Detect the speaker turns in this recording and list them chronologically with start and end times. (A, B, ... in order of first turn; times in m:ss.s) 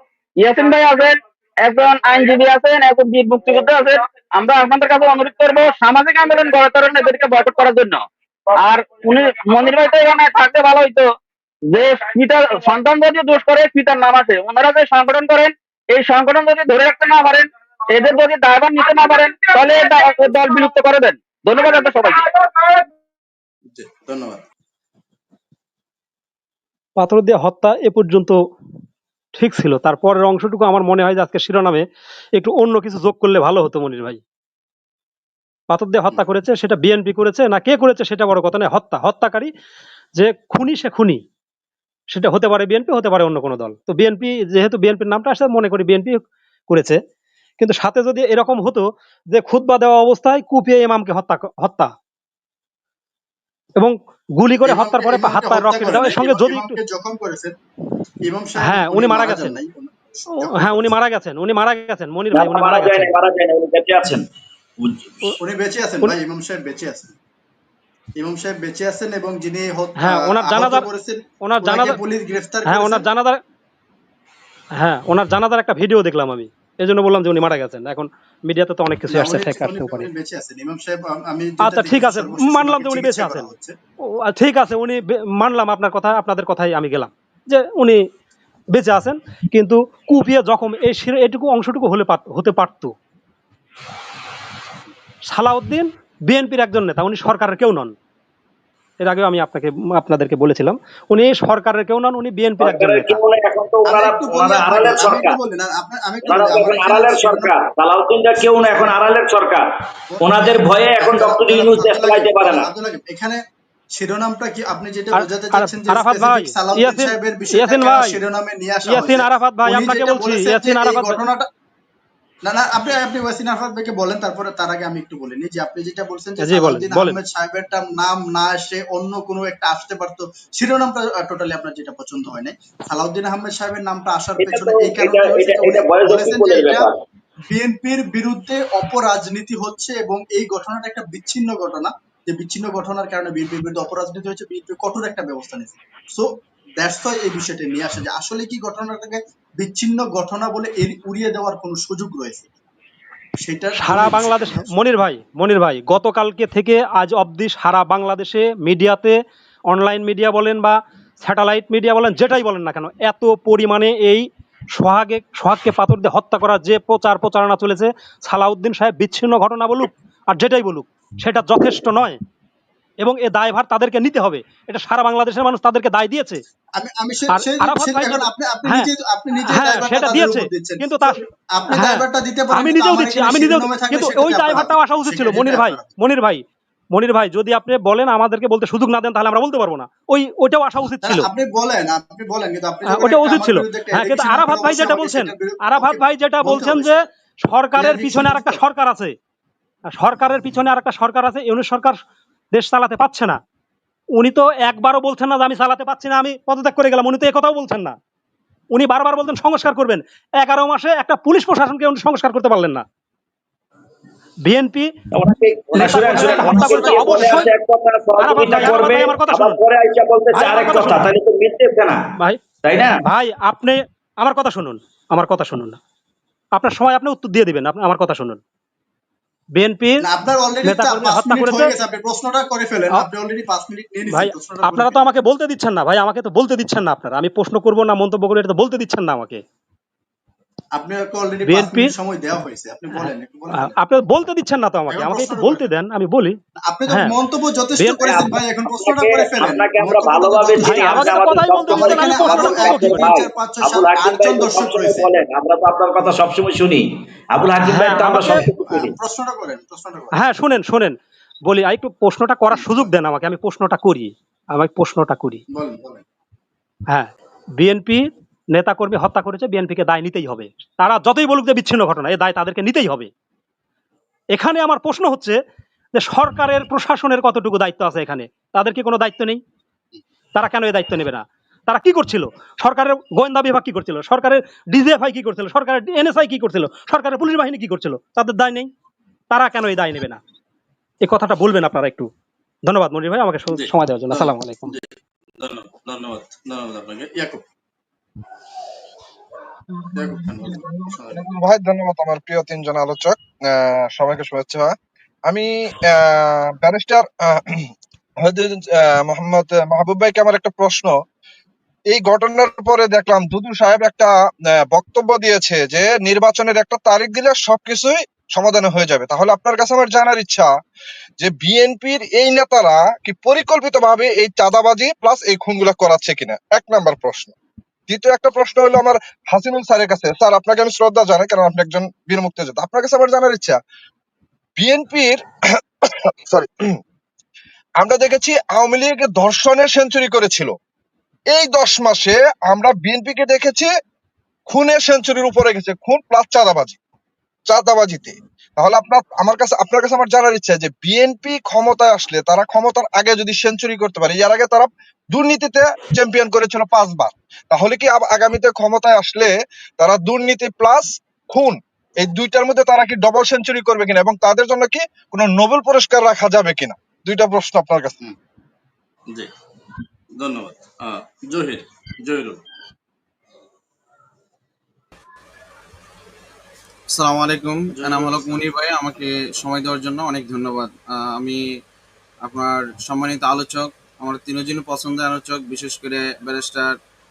0:00.4-0:08.0 A
0:08.6-0:11.1 A
0:11.7-0:22.2 A
0:23.7-0:24.4 B
0:27.0-0:28.4 C
0:29.3-0:31.8 C
0:32.4-0:34.2 C
0:35.7-0:39.5 C
0:40.2-0:41.2 C
0:42.1-0:47.0 C
0:47.6-0:51.9 C
0:53.8-0:56.8 C
0:54.6-0:57.6 B
0:58.2-1:01.0 B
0:58.6-0:59.6 C
1:00.3-1:03.1 C
1:02.3-1:04.2 D
1:04.8-1:05.3 D
1:05.4-1:07.2 B
1:08.2-1:13.1 B
1:10.0-1:10.9 C
1:11.4-1:12.0 C
1:12.6-1:13.4 C
1:14.8-1:20.1 C
1:19.1-1:23.7 B
1:21.6-1:23.5 C
1:24.3-1:28.0 C
1:28.7-1:32.9 C
1:35.3-1:37.9 C
1:39.0-1:43.2 C
1:42.6-1:45.4 D
1:43.8-1:47.5 B
1:46.2-1:49.7 D
1:48.3-1:49.0 B
1:50.1-1:53.4 B
1:50.2-1:52.7 D
1:53.9-2:01.5 B
1:55.1-1:58.2 C
1:58.8-2:01.2 C
2:02.4-2:16.9 B
2:06.4-2:07.2 C
2:14.4-2:17.0 D
2:17.5-2:26.3 B
2:26.8-2:32.5 B
2:33.4-2:34.7 B
2:33.8-2:39.2 C
2:39.7-2:52.2 C
2:53.0-2:56.4 C
2:56.8-3:05.9 B
2:57.3-2:58.9 C
2:59.4-3:11.3 C
3:11.0-3:17.0 B
3:12.8-3:19.1 C
3:17.8-3:18.6 B
3:20.0-3:22.0 C
3:22.5-3:23.4 C
3:24.2-3:28.0 C
3:28.7-3:32.8 C
3:34.4-3:34.9 C
3:35.1-3:42.0 D
3:35.7-3:37.4 B
3:35.7-3:37.5 C
3:38.2-3:39.6 C
3:40.3-3:41.1 C
3:42.6-3:43.0 D
3:43.0-3:45.8 C
3:46.5-3:48.4 C
3:49.6-3:50.1 C
3:50.0-3:55.0 B
3:50.6-3:51.8 C
3:54.0-3:59.4 C
4:00.7-4:03.8 B
4:01.4-4:02.0 C
4:02.9-4:07.2 C
4:04.9-4:05.7 B
4:06.6-4:15.1 B
4:07.8-4:08.4 C
4:08.0-4:18.9 D
4:10.6-4:13.1 C
4:17.6-4:18.5 C
4:18.6-4:20.2 B
4:20.1-4:21.0 C
4:21.5-4:25.4 C
4:22.5-4:22.9 B
4:25.5-4:26.0 B
4:26.9-4:33.1 C
4:34.3-4:35.4 C
4:36.0-4:39.4 C
4:40.4-4:48.7 C
4:49.3-4:50.2 C
4:51.0-4:52.1 C
4:52.6-4:54.8 C
4:53.5-4:54.8 B
4:55.4-4:57.4 B
4:59.8-5:04.7 E
4:59.9-5:01.2 B
5:05.3-5:07.7 E
5:08.2-5:10.9 E
5:11.9-5:14.1 E
5:14.7-5:20.5 E
5:21.2-5:27.3 E
5:27.9-5:33.6 E
5:34.6-5:35.2 E
5:35.9-5:36.8 E
5:37.8-5:40.5 E
5:41.3-5:43.7 E
5:44.5-5:46.8 E
5:47.5-6:08.0 E
6:10.2-6:12.4 B
6:16.9-6:21.4 F
6:17.8-6:18.3 B
6:22.2-6:26.8 F